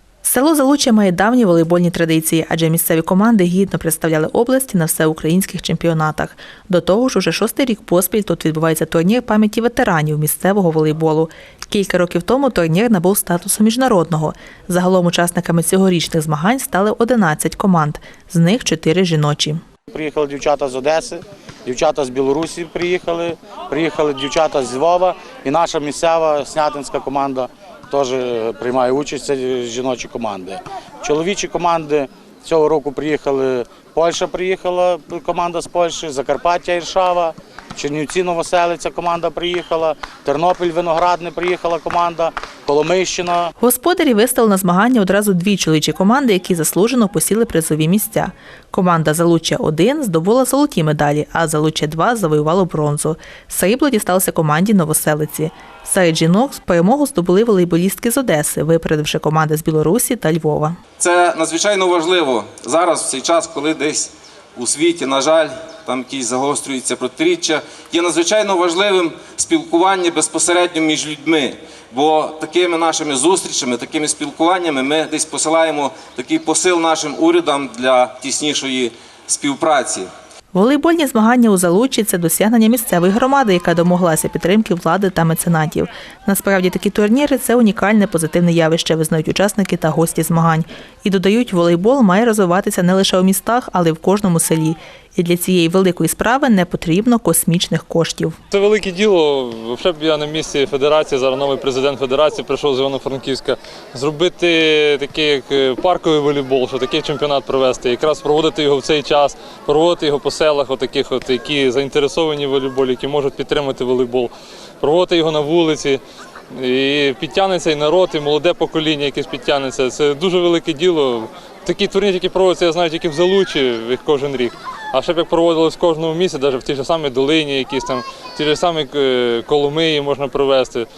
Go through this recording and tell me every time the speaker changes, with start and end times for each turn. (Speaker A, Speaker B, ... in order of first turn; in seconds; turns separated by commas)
Speaker A: 0.2-19.6, Speaker B: 19.9-43.5, Speaker A: 43.6-60.8, Speaker C: 61.0-80.1, Speaker A: 80.5-98.4, Speaker D: 98.5-116.0, Speaker D: 116.5-130.9